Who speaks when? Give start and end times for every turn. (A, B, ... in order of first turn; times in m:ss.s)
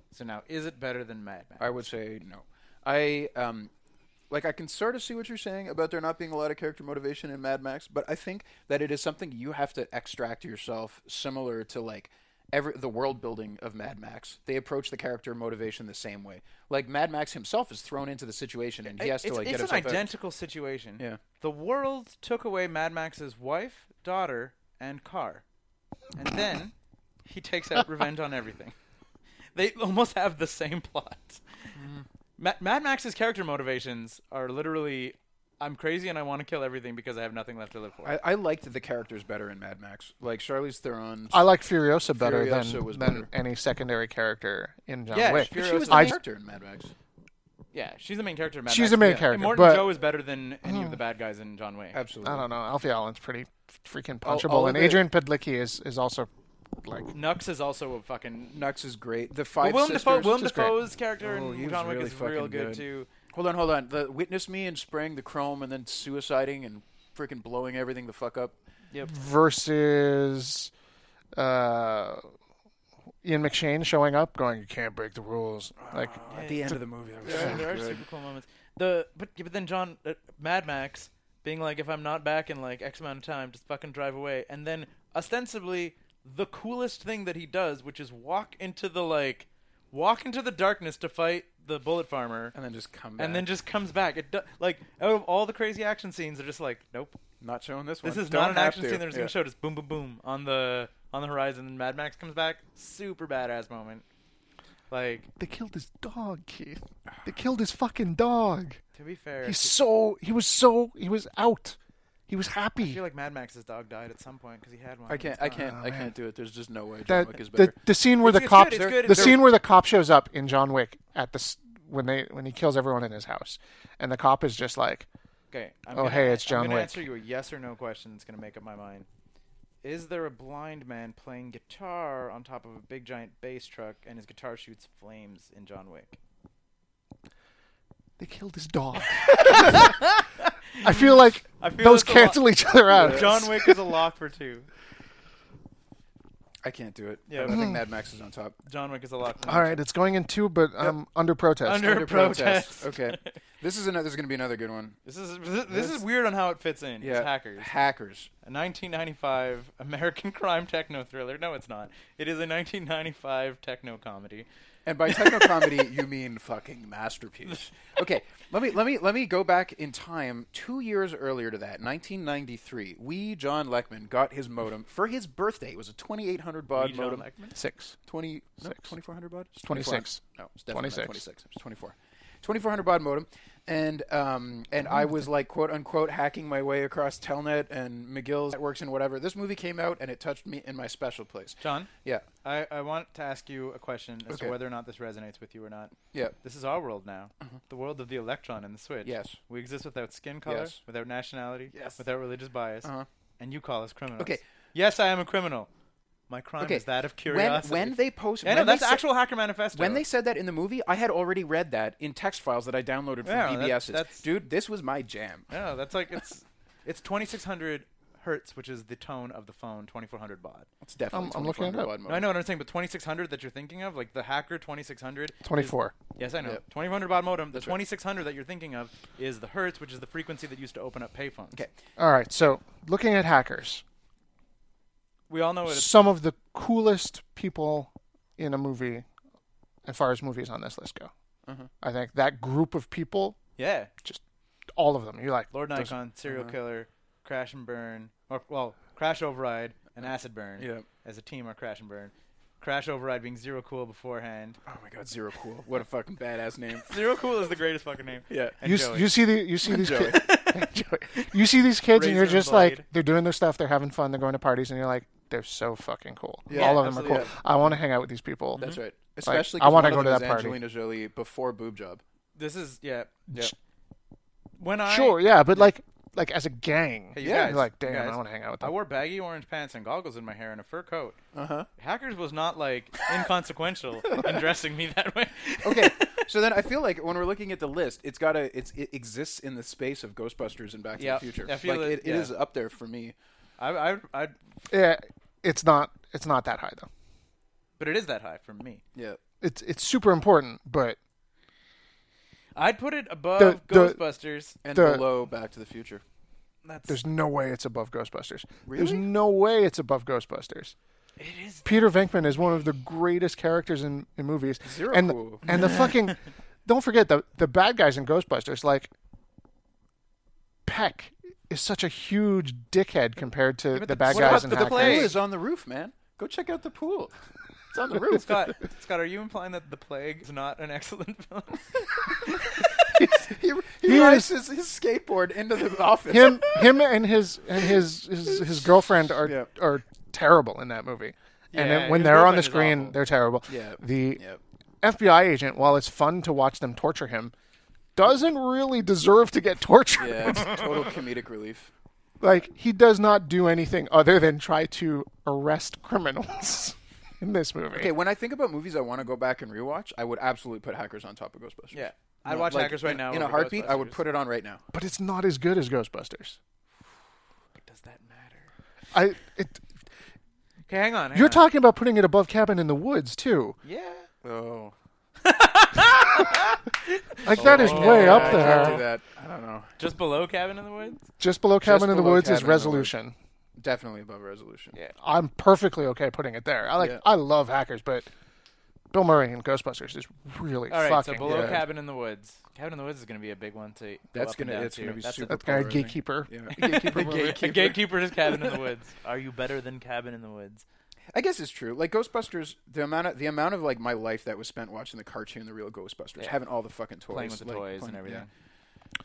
0:00.1-0:01.8 A
0:01.6-0:03.7 B
0:04.3-0:20.1 B
0:18.9-0:25.4 A
0:26.2-0:26.7 A
0:27.2-0:28.7 A
0:29.5-0:31.7 A
0:31.8-0:32.0 B
0:32.4-0:38.2 A
0:38.0-0:41.4 B
0:41.3-0:46.2 C
0:42.1-0:43.3 B
0:45.1-0:46.2 A
0:45.3-0:46.9 B
0:47.7-0:52.0 A
0:48.7-0:50.0 C
0:50.6-0:51.0 C
0:51.9-0:52.4 B
0:52.2-0:56.3 C
0:54.2-0:55.0 B
0:56.8-0:57.1 C
0:57.1-0:58.6 A
0:58.5-1:00.4 B
0:59.6-1:03.1 A
1:00.2-1:00.7 C
1:01.2-1:08.5 B
1:09.0-1:10.7 C
1:11.3-1:12.3 C
1:13.2-1:16.2 C
1:15.8-1:18.0 B
1:16.3-1:32.5 A
1:17.3-1:17.6 C
1:32.5-1:33.5 B
1:33.2-1:37.2 A
1:37.4-1:39.3 B
1:38.0-1:44.0 A
1:44.9-1:45.3 A
1:45.4-1:48.8 C
1:48.9-1:49.8 A
1:49.4-1:51.8 C
1:52.3-1:53.0 C
1:52.8-1:55.6 A
1:55.1-1:57.8 B
1:55.7-1:56.1 C
1:57.1-2:05.1 C
1:58.2-1:59.4 A
1:58.5-1:59.4 B
2:05.5-2:09.1 A
2:05.9-2:07.0 C
2:09.8-2:16.2 A
2:18.2-2:20.0 C
2:19.2-2:24.7 A
2:20.8-2:23.8 C
2:22.9-2:23.4 B
2:26.6-2:28.6 B
2:27.3-2:27.6 A
2:27.5-2:27.8 C
2:28.6-2:29.8 A
2:29.4-2:32.0 C
2:31.6-2:33.4 A
2:31.8-2:35.0 B
2:35.0-2:37.7 A
2:35.7-2:36.0 B
2:37.0-2:38.3 B
2:38.4-2:44.5 A
2:44.8-2:57.3 B
2:45.4-2:45.8 A
2:56.7-2:57.5 A
2:57.5-2:58.0 C
2:58.0-3:12.2 B
2:59.6-3:01.2 C
3:11.6-3:11.9 A
3:12.4-3:25.7 A
3:14.3-3:14.6 B
3:19.0-3:19.4 B
3:20.4-3:20.7 B
3:21.7-3:22.0 B
3:26.3-3:30.0 A
3:26.6-3:29.0 B
3:29.7-3:35.5 B
3:33.2-3:34.2 A
3:35.5-3:40.7 A
3:40.8-3:42.4 B
3:41.1-3:41.9 C
3:42.1-3:51.6 A
3:45.4-3:45.9 C
3:47.5-3:47.8 B
3:52.0-3:53.8 C
3:55.3-3:56.0 A
3:55.6-3:59.0 C
3:59.8-4:01.1 C
4:01.8-4:03.4 C
4:03.6-4:03.9 A
4:04.8-4:05.9 C
4:05.5-4:14.6 A
4:06.3-4:06.5 B
4:10.6-4:10.8 B
4:14.6-4:17.0 B
4:16.8-4:21.3 A
4:18.3-4:18.6 B
4:18.6-4:30.6 C
4:19.6-4:20.2 B
4:21.9-4:22.8 A
4:26.5-4:27.3 B
4:26.5-4:27.4 A
4:28.5-4:28.8 A
4:28.6-4:32.0 B
4:32.3-4:33.2 A
4:34.6-4:35.6 A
4:34.8-4:38.7 C
4:37.1-4:41.2 A
4:37.2-4:37.6 B
4:41.3-4:41.7 B
4:41.8-4:46.3 A
4:45.6-4:53.1 B
4:51.0-4:52.3 A
4:53.6-4:54.3 A
4:54.7-4:56.9 C
4:57.8-4:58.8 A
4:59.4-5:01.0 C
5:02.5-5:04.6 A
5:03.4-5:04.0 C
5:04.6-5:06.0 B
5:04.7-5:05.1 C
5:06.6-5:07.0 A
5:06.9-5:10.7 C
5:08.6-5:09.1 B
5:11.2-5:11.9 A
5:11.6-5:18.9 C
5:14.6-5:15.6 B
5:15.5-5:15.8 A
5:20.6-5:25.2 C
5:23.8-5:27.1 B
5:23.8-5:25.1 A
5:27.7-5:28.6 B
5:28.0-5:32.5 A
5:32.8-5:36.8 B
5:33.8-5:34.3 C
5:36.1-5:44.2 C
5:39.2-5:39.5 B
5:41.5-5:43.0 A
5:43.5-5:44.4 B
5:44.8-5:47.3 C
5:48.0-5:50.8 C
5:50.0-5:51.7 B
5:52.2-5:57.9 C
5:57.7-6:04.6 B
6:01.7-6:04.0 A
6:04.7-6:06.4 C
6:07.5-6:08.5 A
6:08.9-6:09.6 C
6:10.7-6:11.4 A
6:11.1-6:13.6 C
6:13.6-6:14.1 A
6:14.2-6:14.7 B
6:15.2-6:18.8 A
6:17.2-6:18.9 C
6:17.3-6:19.7 B
6:19.8-6:21.0 A
6:21.2-6:23.1 C
6:21.6-6:22.9 B
6:23.6-6:24.8 B
6:25.0-6:28.1 C
6:26.8-6:27.0 B
6:28.9-6:31.6 C
6:30.7-6:35.6 A
6:31.2-6:31.6 B
6:34.1-6:38.7 B
6:35.3-6:37.3 C
6:36.6-6:40.6 A
6:41.1-6:48.2 B
6:47.1-6:48.3 A